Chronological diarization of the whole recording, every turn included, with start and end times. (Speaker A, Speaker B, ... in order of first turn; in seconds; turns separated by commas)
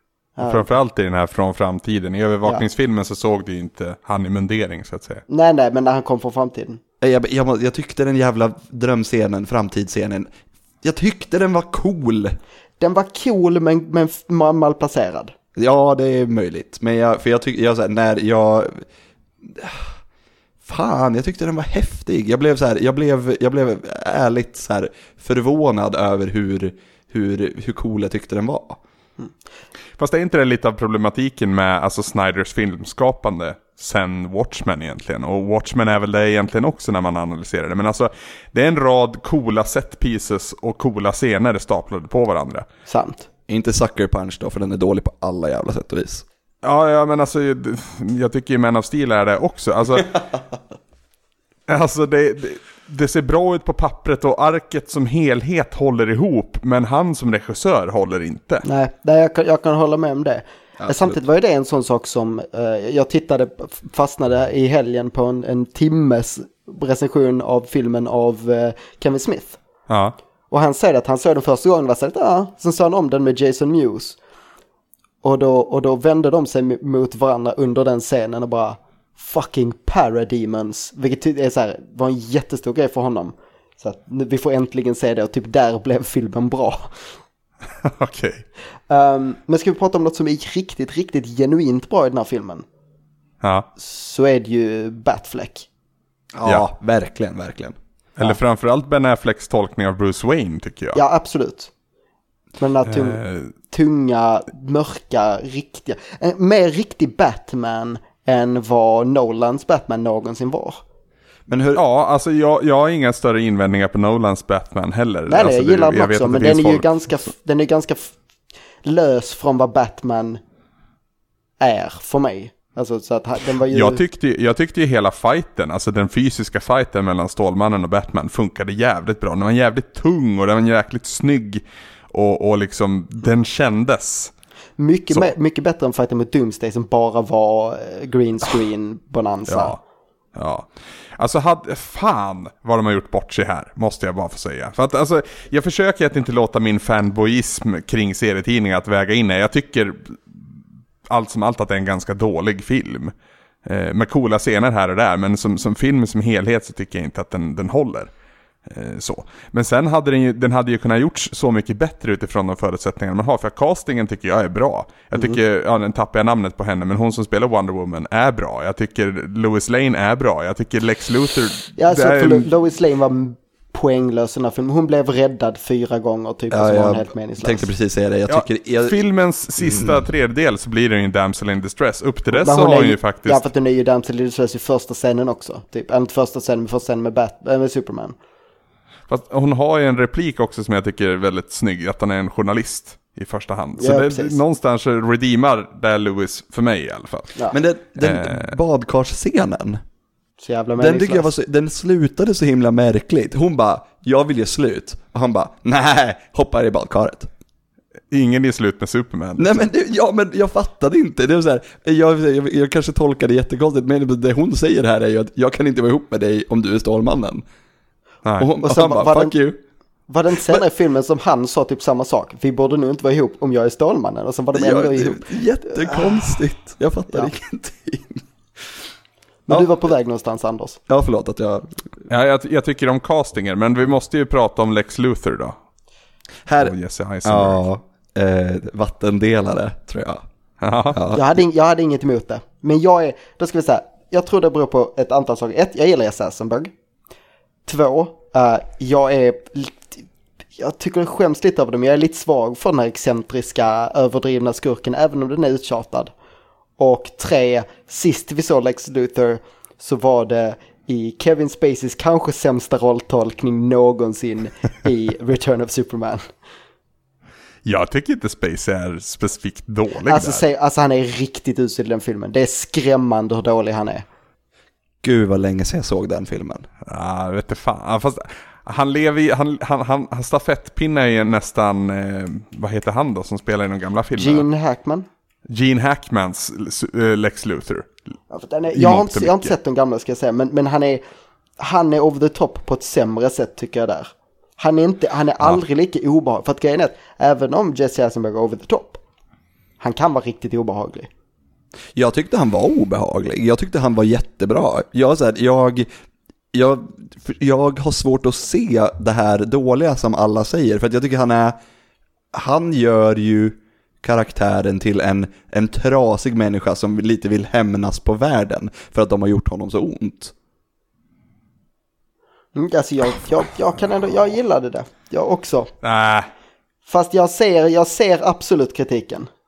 Speaker A: 0.3-0.7, Speaker B: 0.4-5.2, Speaker A: 5.3-6.8, Speaker C: 7.0-10.3, Speaker C: 10.8-12.3, Speaker A: 12.8-15.3, Speaker C: 15.5-18.8, Speaker C: 19.4-20.0, Speaker C: 20.6-28.8, Speaker B: 30.0-42.6, Speaker A: 42.9-43.3, Speaker C: 43.5-46.2, Speaker B: 46.6-50.2, Speaker B: 51.7-58.6, Speaker A: 58.6-69.6, Speaker C: 60.8-61.2, Speaker B: 69.9-70.1, Speaker A: 70.5-74.2, Speaker A: 75.2-86.9, Speaker B: 87.8-88.4, Speaker A: 88.9-92.6, Speaker B: 93.4-93.7, Speaker A: 93.8-95.7, Speaker C: 96.3-97.8, Speaker B: 98.2-101.0, Speaker A: 100.9-101.7, Speaker A: 102.6-110.8, Speaker B: 102.9-103.5, Speaker C: 111.5-111.8, Speaker B: 111.7-117.1, Speaker A: 115.3-118.1, Speaker A: 118.8-120.4, Speaker A: 121.6-124.0, Speaker B: 123.7-134.3, Speaker A: 134.8-139.8, Speaker B: 139.5-139.8, Speaker B: 140.3-150.3, Speaker B: 151.1-153.1, Speaker B: 153.6-158.1, Speaker B: 158.7-172.5, Speaker A: 171.8-177.7, Speaker C: 176.5-179.0, Speaker B: 178.3-183.4, Speaker C: 179.6-180.0, Speaker A: 182.3-188.1, Speaker B: 189.1-197.4, Speaker A: 193.8-194.4, Speaker C: 197.5-199.8, Speaker B: 198.0-198.5, Speaker A: 200.4-201.3, Speaker C: 200.8-207.3, Speaker B: 208.1-209.5, Speaker C: 209.4-217.4, Speaker C: 218.4-219.6, Speaker A: 218.6-219.3, Speaker A: 220.1-226.4, Speaker C: 224.5-228.6, Speaker A: 229.5-230.8, Speaker C: 230.9-231.7, Speaker B: 232.1-235.6, Speaker C: 236.5-240.2, Speaker B: 236.6-237.6, Speaker B: 240.6-241.0, Speaker C: 240.9-241.3, Speaker A: 241.1-246.7, Speaker A: 247.7-250.0, Speaker A: 250.6-256.1, Speaker A: 256.8-266.3, Speaker B: 267.6-270.4, Speaker A: 270.0-274.1, Speaker C: 275.0-276.7, Speaker B: 276.9-284.4, Speaker A: 284.1-285.1, Speaker B: 285.5-287.9, Speaker A: 288.3-291.0, Speaker B: 288.7-289.5, Speaker A: 291.6-299.0, Speaker A: 299.8-301.1, Speaker C: 301.9-305.9, Speaker C: 306.5-311.6, Speaker C: 312.3-320.3, Speaker A: 322.6-325.7, Speaker B: 325.8-326.3, Speaker A: 326.9-329.3